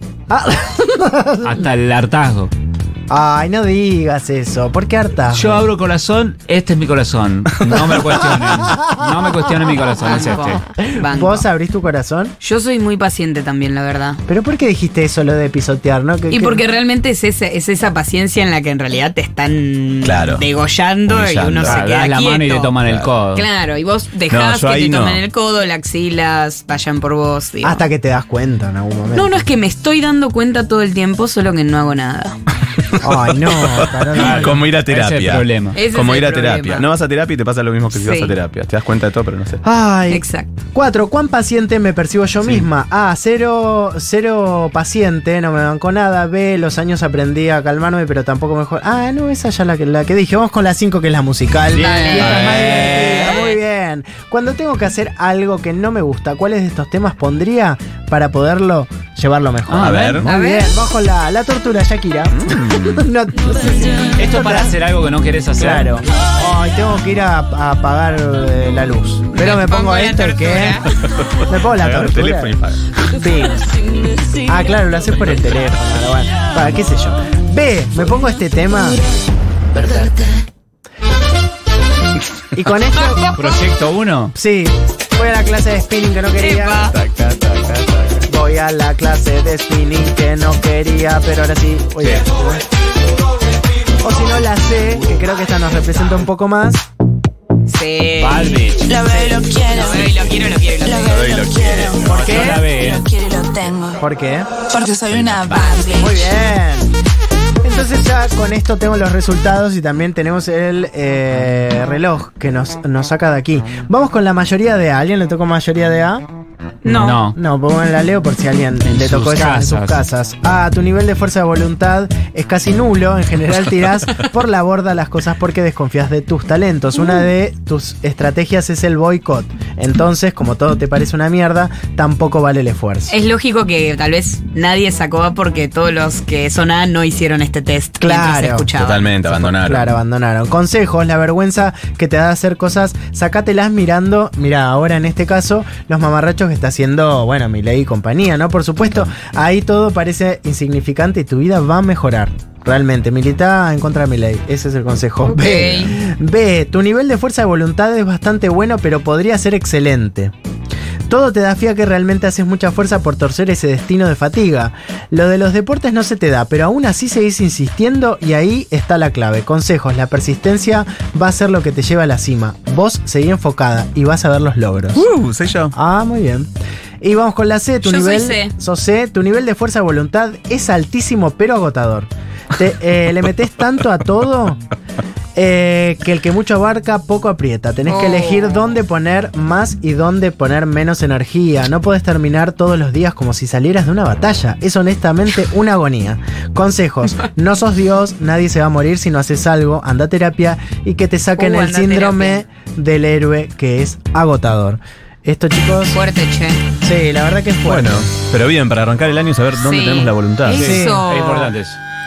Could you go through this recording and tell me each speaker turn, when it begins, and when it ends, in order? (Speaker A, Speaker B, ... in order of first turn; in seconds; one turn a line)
Speaker A: 0.3-1.6
Speaker B: 1.4-2.5
Speaker A: 3.1-5.7
Speaker B: 5.3-10.6
Speaker C: 9.9-11.5
Speaker A: 10.7-12.3
Speaker C: 12.4-14.2
Speaker A: 14.3-16.6
Speaker C: 16.3-22.8
Speaker D: 20.0-20.4
Speaker D: 21.1-21.9
Speaker B: 21.6-23.5
Speaker D: 22.9-23.1
Speaker C: 23.3-27.9
Speaker D: 24.3-25.2
Speaker A: 27.6-29.4
Speaker C: 29.1-32.4
Speaker A: 33.0-34.6
Speaker D: 33.3-39.6
Speaker B: 34.1-35.9
Speaker C: 35.7-36.9
Speaker C: 38.0-38.3
Speaker A: 39.6-40.2
Speaker C: 40.1-40.5
Speaker A: 40.7-64.8
Speaker B: 51.7-53.0
Speaker C: 51.7-53.6
Speaker D: 52.2-53.4
Speaker B: 59.7-60.2
Speaker D: 59.8-60.2
Speaker C: 60.2-60.8
Speaker D: 62.3-63.0
Speaker B: 64.2-66.1
Speaker A: 65.5-70.9
Speaker C: 69.3-70.9
Speaker A: 71.5-72.6
Speaker D: 71.7-73.0
Speaker A: 73.1-73.6
Speaker A: 74.5-79.0
Speaker A: 79.8-80.1
Speaker A: 82.5-83.3
Speaker C: 83.0-83.4
Speaker B: 83.3-84.3
Speaker A: 84.3-86.9
Speaker C: 86.4-87.0
Speaker D: 86.9-88.2
Speaker A: 88.3-92.6
Speaker A: 94.0-96.8
Speaker C: 97.7-101.4
Speaker B: 98.2-99.0
Speaker E: 98.9-99.8
Speaker B: 99.9-100.2
Speaker D: 101.0-102.9
Speaker E: 101.0-101.7
Speaker A: 102.1-102.7
Speaker B: 102.1-103.1
Speaker E: 103.1-103.9
Speaker A: 103.9-104.5
Speaker E: 104.7-105.9
Speaker D: 105.0-105.8
Speaker A: 105.8-106.9
Speaker A: 107.6-116.3
Speaker C: 116.8-117.2
Speaker A: 116.9-133.1
Speaker B: 116.9-117.4
Speaker B: 118.8-120.0
Speaker C: 133.1-139.1
Speaker A: 138.0-138.7
Speaker D: 138.8-139.9
Speaker A: 139.2-160.3
Speaker C: 155.2-156.0
Speaker A: 161.1-175.1
Speaker D: 174.9-175.8
Speaker A: 175.7-176.5
Speaker A: 177.0-184.6
Speaker C: 177.8-178.5
Speaker A: 185.4-206.0
Speaker C: 187.9-188.8
Speaker C: 201.4-202.4
Speaker C: 205.9-206.6
Speaker A: 206.8-208.1
Speaker D: 207.7-210.8
Speaker C: 209.6-211.5
Speaker B: 210.5-211.8
Speaker A: 210.5-211.0